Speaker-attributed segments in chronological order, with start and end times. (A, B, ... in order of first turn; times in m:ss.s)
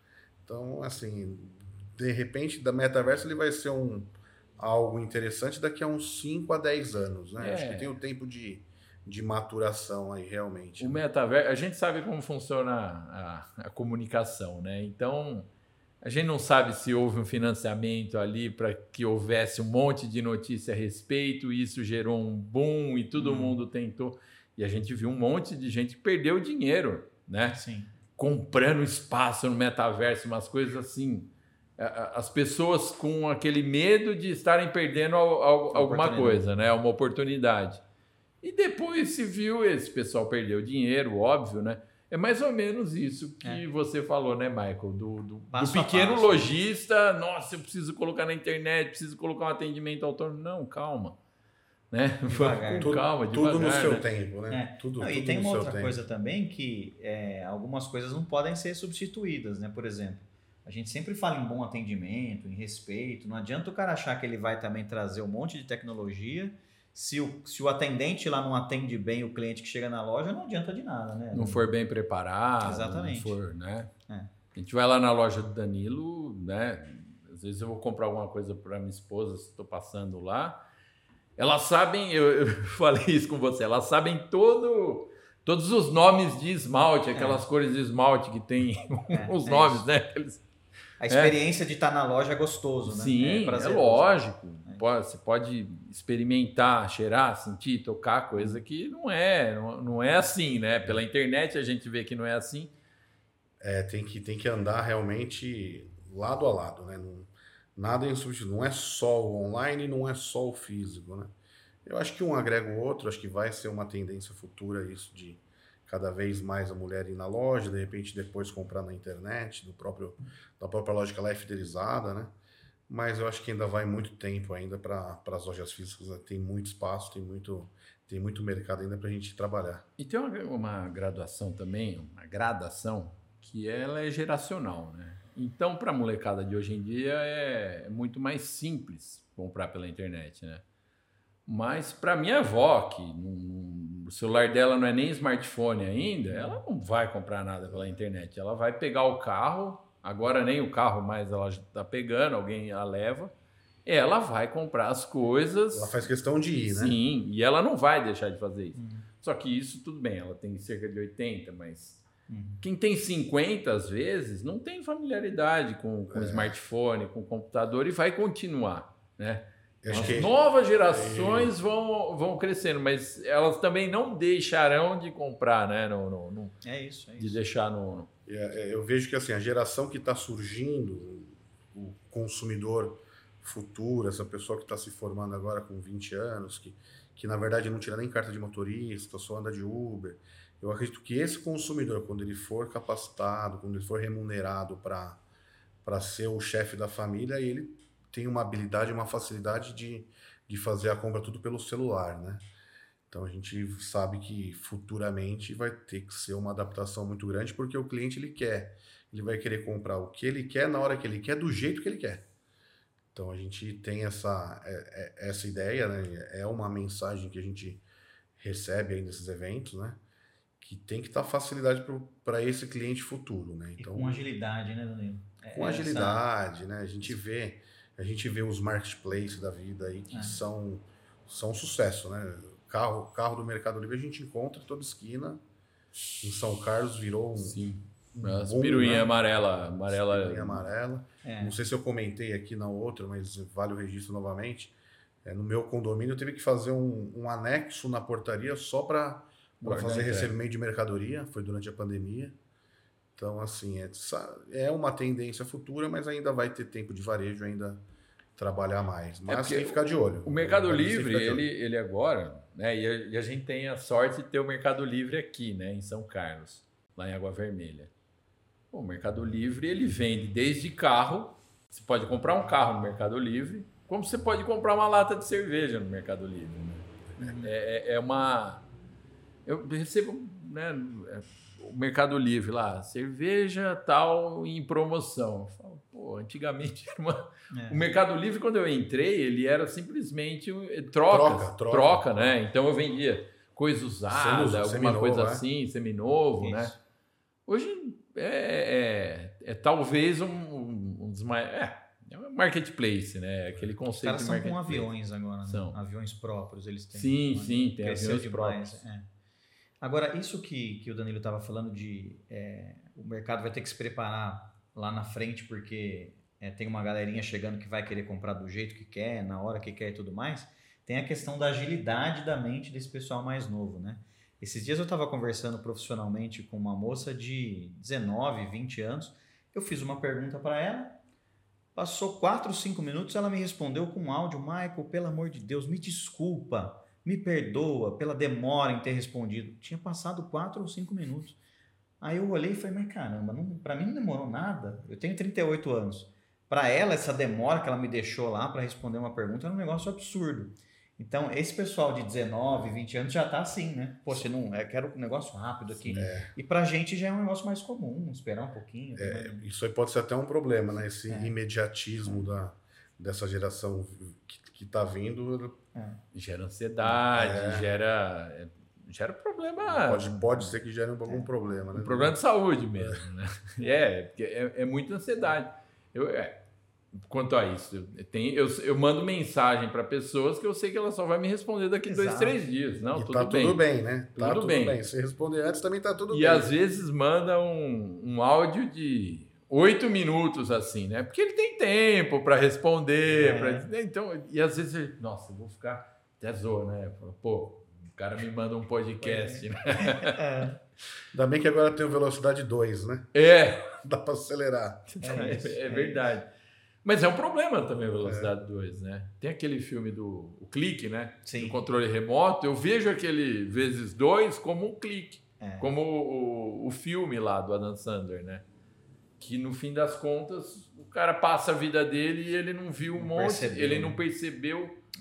0:00.4-0:11.0 A
0:07.4-0:07.9 B
0:10.8-0:15.5 B
0:16.0-0:27.6 B
0:23.2-0:23.6 C
0:27.5-0:27.9 C
0:28.2-0:37.8 B
0:35.7-0:36.5 C
0:38.4-0:51.2 B
0:45.5-0:46.5 C
0:51.9-0:54.0 B
0:52.3-0:52.9 C
0:52.8-0:56.0 A
0:54.5-1:11.7 C
1:11.3-1:13.9 B
1:12.6-1:13.4 C
1:14.5-1:20.6 B
1:21.4-1:30.4 B
1:27.1-1:27.4 C
1:29.1-1:29.9 C
1:31.0-1:34.8 C
1:31.1-1:31.4 B
1:32.9-1:42.7 B
1:38.4-1:38.6 C
1:43.6-1:51.3 A
1:51.8-2:02.3 A
2:02.9-2:09.8 A
2:10.0-2:20.6 B
2:21.4-2:33.3 B
2:26.3-2:26.6 C
2:33.8-2:36.0 B
2:35.7-2:37.0 A
2:36.6-2:42.0 B
2:38.8-2:39.0 C
2:42.3-2:42.6 C
2:42.6-2:56.6 B
2:46.1-2:46.6 A
2:49.8-2:51.6 A
2:49.9-2:50.2 C
2:56.6-2:57.4 C
2:57.2-2:58.1 B
2:58.3-3:15.2 A
3:15.8-3:22.4 A
3:23.1-3:32.2 A
3:33.1-3:37.8 A
3:38.4-3:40.0 A
3:40.6-3:44.2 A
3:43.8-3:46.2 C
3:45.5-3:55.4 A
3:50.1-3:50.4 C
3:56.2-3:57.6 A
3:57.4-4:00.7 B
3:58.1-3:59.2 A
3:59.8-4:12.4 A
4:01.2-4:01.6 C
4:09.6-4:10.3 B
4:13.2-4:17.8 A
4:18.4-4:21.5 A
4:19.3-4:27.9 B
4:28.7-4:38.6 B
4:37.2-4:37.5 C
4:39.4-4:56.8 B
4:47.5-4:47.8 C
4:51.1-4:52.3 A
4:54.1-4:55.4 A
4:56.4-4:56.8 C
4:57.4-5:04.9 B
5:04.0-5:09.1 C
5:05.4-5:05.8 B
5:06.9-5:08.8 B
5:09.8-5:31.0 C
5:31.8-5:41.4 C
5:42.0-5:59.5 C
5:55.8-5:56.1 B
5:55.9-5:56.3 A
5:59.0-6:05.6 A
6:01.1-6:01.3 C
6:05.7-6:06.0 C
6:06.1-6:10.3 B
6:06.8-6:07.7 A
6:09.6-6:12.1 A
6:11.7-6:16.4 B
6:17.0-6:23.6 B
6:21.8-6:22.4 C
6:22.9-6:26.5 A
6:24.2-6:24.8 B
6:26.1-6:40.2 B
6:33.0-6:33.7 C
6:39.0-6:40.6 C
6:41.1-6:43.1 A
6:43.1-6:43.7 B
6:43.8-6:45.0 A
6:44.9-6:46.3 B
6:45.0-6:46.1 C
6:46.8-6:58.4 B
6:48.0-6:48.3 A
6:51.2-6:51.6 C
6:55.4-6:55.7 C
6:59.2-7:04.8 B
7:03.0-7:04.0 C